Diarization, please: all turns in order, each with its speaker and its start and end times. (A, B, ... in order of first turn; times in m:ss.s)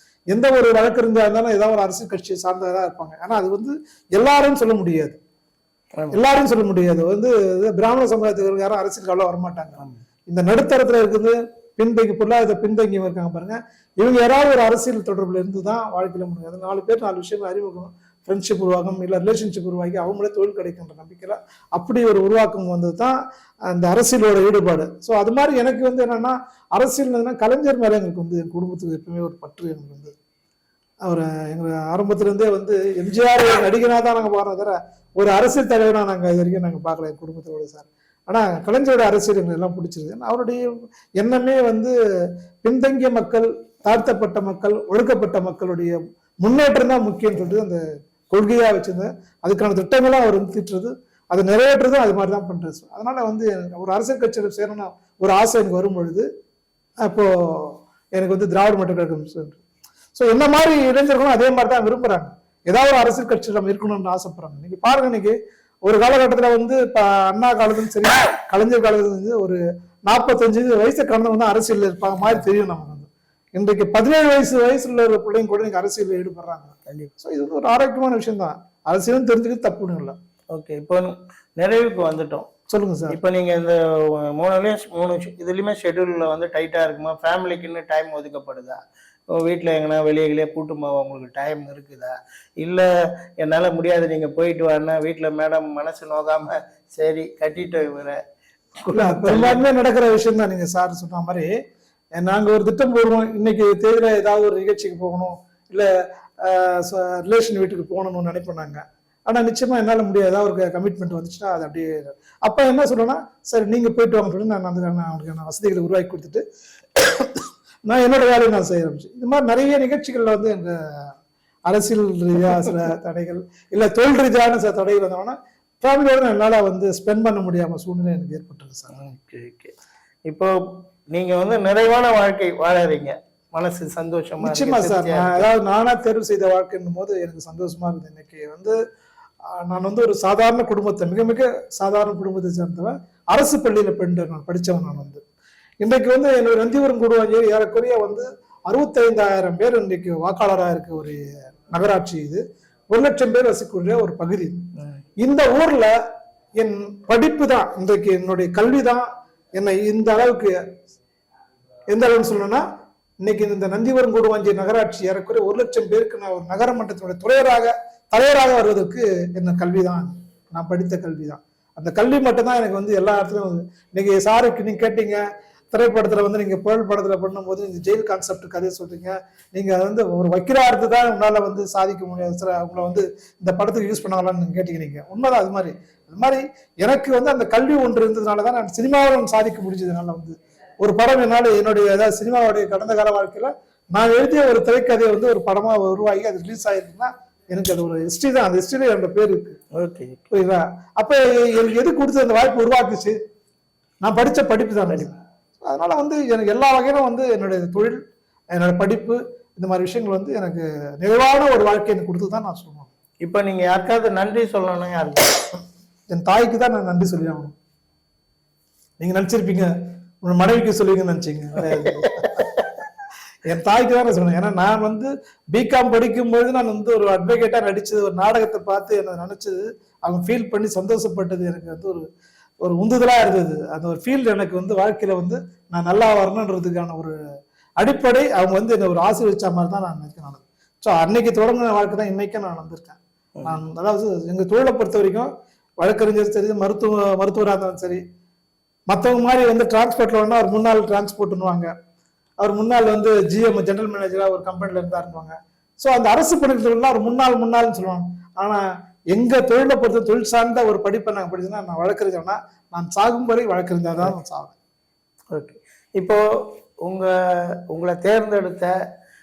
0:00.3-0:05.2 A
0:06.1-0:23.2 A
0:23.7-0:30.1 A
0:31.0-0:40.6 A
0:41.2-0:41.9 A
0:42.6-0:56.3 A
0:57.0-0:59.6 A
1:00.1-1:20.2 A
1:16.9-1:17.1 B
1:20.5-1:22.5 B
1:22.7-1:23.2 A
1:23.1-1:28.8 B
1:29.3-1:32.9 B
1:33.4-1:38.2 B
1:38.8-1:39.6 B
1:38.9-1:41.5 A
1:42.2-1:45.9 A
1:46.4-1:56.4 A
1:56.9-2:01.1 A
2:01.7-2:08.9 A
2:08.9-2:09.7 B
2:10.2-2:10.5 B
2:11.1-2:15.5 B
2:14.4-2:18.8 A
2:19.6-2:25.2 A
2:25.8-2:34.6 A
2:35.2-2:35.9 A
2:36.6-2:40.6 A
2:41.9-2:42.6 A
2:43.2-3:19.6 A
3:19.7-3:20.3 B
3:20.3-3:23.2 A
3:24.0-3:28.0 A
3:28.5-3:32.9 A
3:33.2-3:35.5 B
3:36.1-3:37.5 A
3:39.0-3:39.7 A
3:40.2-3:42.5 A
3:41.6-3:42.7 B
3:43.4-3:52.0 A
3:52.6-3:57.1 A
3:57.8-4:05.3 A
4:05.8-4:08.0 A
4:08.9-4:11.7 A
4:12.4-4:24.5 A
4:25.3-4:28.7 B